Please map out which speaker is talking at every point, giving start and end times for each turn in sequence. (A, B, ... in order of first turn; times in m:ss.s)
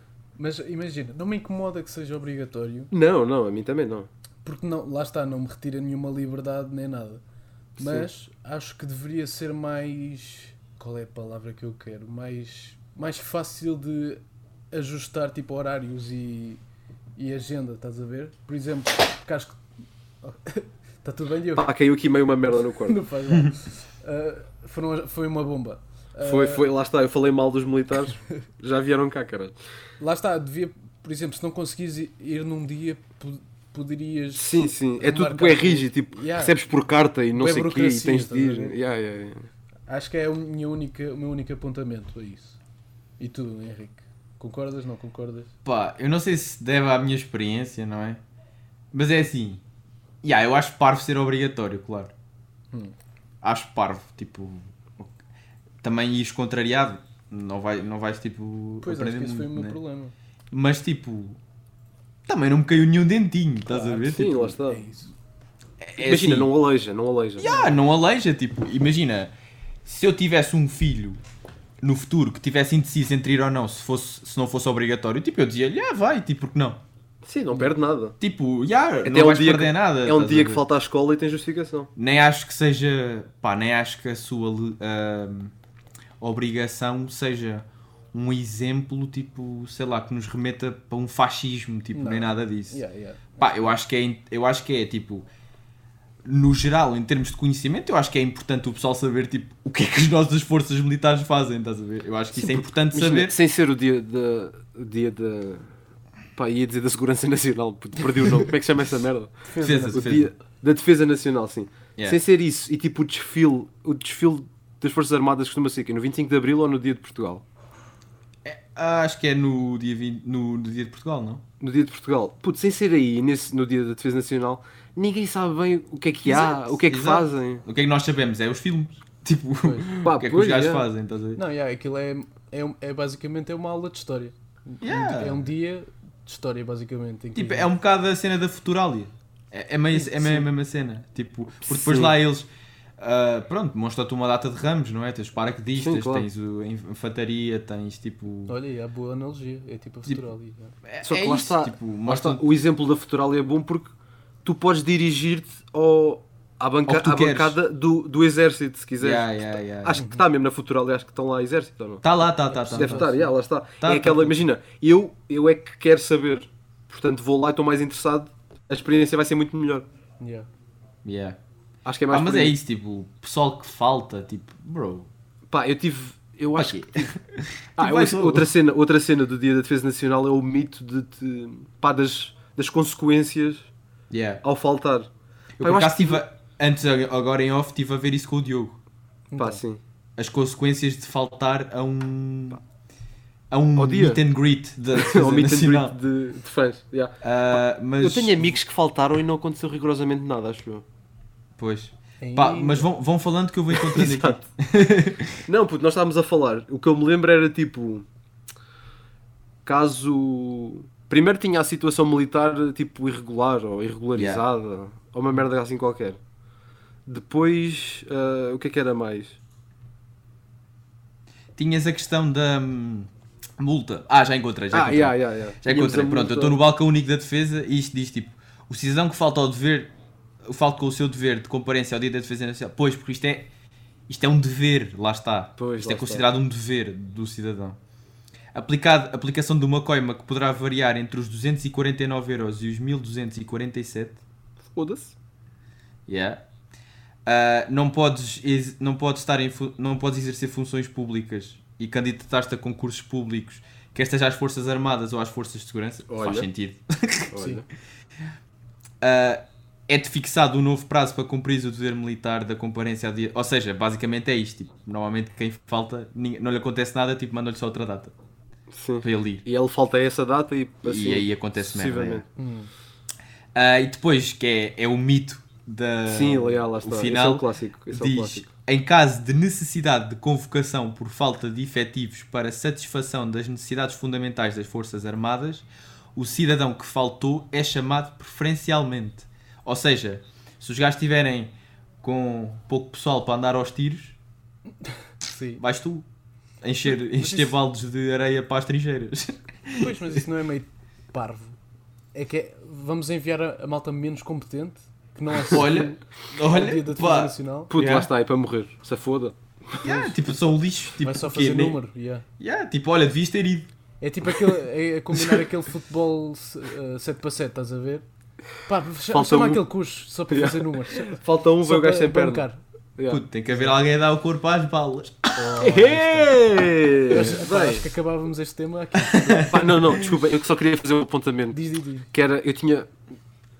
0:00.4-0:02.9 A
0:02.9-0:04.1 B
0:04.4-0:07.2 A
0:07.8-0:08.1 B
0:07.8-0:16.6 A
0:17.2-0:19.6 A
0:20.2-0:21.7 A
0:21.6-0:23.0 B
0:22.8-0:26.6 A
0:26.2-0:29.5 B
0:30.0-0:36.5 A
0:34.3-0:39.5 B
0:37.4-0:38.8 A
0:39.9-0:42.6 A
0:43.2-0:45.5 A
0:45.6-0:48.2 C
0:48.9-0:49.6 C
0:50.2-0:52.1 C
0:53.4-0:55.1 C
0:55.8-0:59.8 C
0:58.8-1:00.1 A
1:00.5-1:01.4 C
1:02.3-1:04.5 C
1:03.7-1:05.1 A
1:04.0-1:04.8 B
1:05.8-1:06.5 C
1:06.0-1:07.5 B
1:07.4-1:09.3 C
1:07.4-1:07.7 A
1:09.8-1:11.2 C
1:11.8-1:16.8 C
1:17.2-1:18.2 B
1:18.2-1:20.6 C
1:19.0-1:21.9 B
1:22.0-1:25.5 C
1:26.2-1:32.8 C
1:31.9-1:33.7 A
1:33.4-1:35.3 C
1:36.2-1:43.4 C
1:42.3-1:45.7 B
1:46.4-1:57.4 B
1:49.5-1:50.1 A
1:49.6-1:50.3 C
1:58.4-2:01.4 C
2:01.6-2:07.6 B
2:06.2-2:11.4 C
2:09.6-2:09.9 A
2:10.0-2:10.8 B
2:11.4-2:17.7 A
2:14.8-2:15.5 C
2:17.3-2:28.5 C
2:19.9-2:20.5 A
2:21.7-2:22.1 B
2:25.8-2:26.3 B
2:28.5-2:30.7 A
2:30.8-2:32.4 C
2:31.0-2:33.9 B
2:34.4-2:42.0 B
2:36.8-2:37.6 C
2:39.0-2:40.0 C
2:39.9-2:40.2 A
2:42.0-2:43.1 C
2:42.5-2:43.3 A
2:42.7-2:49.8 B
2:43.8-2:44.4 C
2:50.2-2:50.5 A
2:51.0-2:51.4 C
2:51.8-2:52.6 B
2:52.1-2:55.1 C
2:55.5-2:57.2 B
2:56.6-2:58.5 C
2:57.8-3:03.7 B
3:04.1-3:04.4 C
3:04.4-3:05.1 B
3:05.6-3:08.8 C
3:05.6-3:06.2 B
3:09.3-3:09.6 A
3:09.4-3:09.8 B
3:10.2-3:12.6 C
3:13.5-3:15.9 C
3:13.8-3:14.2 B
3:14.9-3:20.8 B
3:17.2-3:18.6 C
3:21.6-3:25.4 C
3:22.2-3:22.9 A
3:23.7-3:24.4 B
3:25.4-3:28.0 B
3:29.6-3:36.2 B
3:34.1-3:34.4 C
3:37.1-3:39.4 B
3:41.6-3:49.9 C
3:44.7-3:46.6 B
3:50.4-3:53.5 C
3:54.1-3:57.8 C
3:55.6-3:56.2 B
3:58.5-4:04.2 C
4:04.7-4:05.1 B
4:06.1-4:06.4 C
4:07.2-4:17.3 C
4:16.1-4:16.5 B
4:17.3-4:17.6 B
4:17.4-4:17.6 A
4:19.0-4:28.1 C
4:28.7-4:32.2 B
4:29.0-4:29.4 C
4:30.8-4:32.2 C
4:32.4-4:32.7 A
4:33.5-4:54.2 C
4:36.1-4:38.5 B
4:55.2-4:55.6 A
4:55.6-4:56.0 C
4:56.6-5:00.2 C
4:57.1-4:57.5 A
4:59.8-5:01.6 A
5:02.1-5:07.7 A
5:05.4-5:08.1 C
5:07.7-5:09.8 B
5:09.8-5:11.8 C
5:09.8-5:10.2 A
5:11.0-5:12.2 A
5:12.4-5:13.7 C
5:14.0-5:18.0 A
5:18.6-5:22.6 A
5:19.1-5:19.6 B
5:20.3-5:22.4 B
5:23.0-5:23.2 B
5:23.1-5:25.7 C
5:23.5-5:23.8 A
5:25.4-5:26.4 A
5:25.6-5:27.9 B
5:27.1-5:29.8 A
5:29.1-5:30.1 C
5:29.4-5:31.6 B
5:31.5-5:32.1 A
5:32.1-5:32.9 B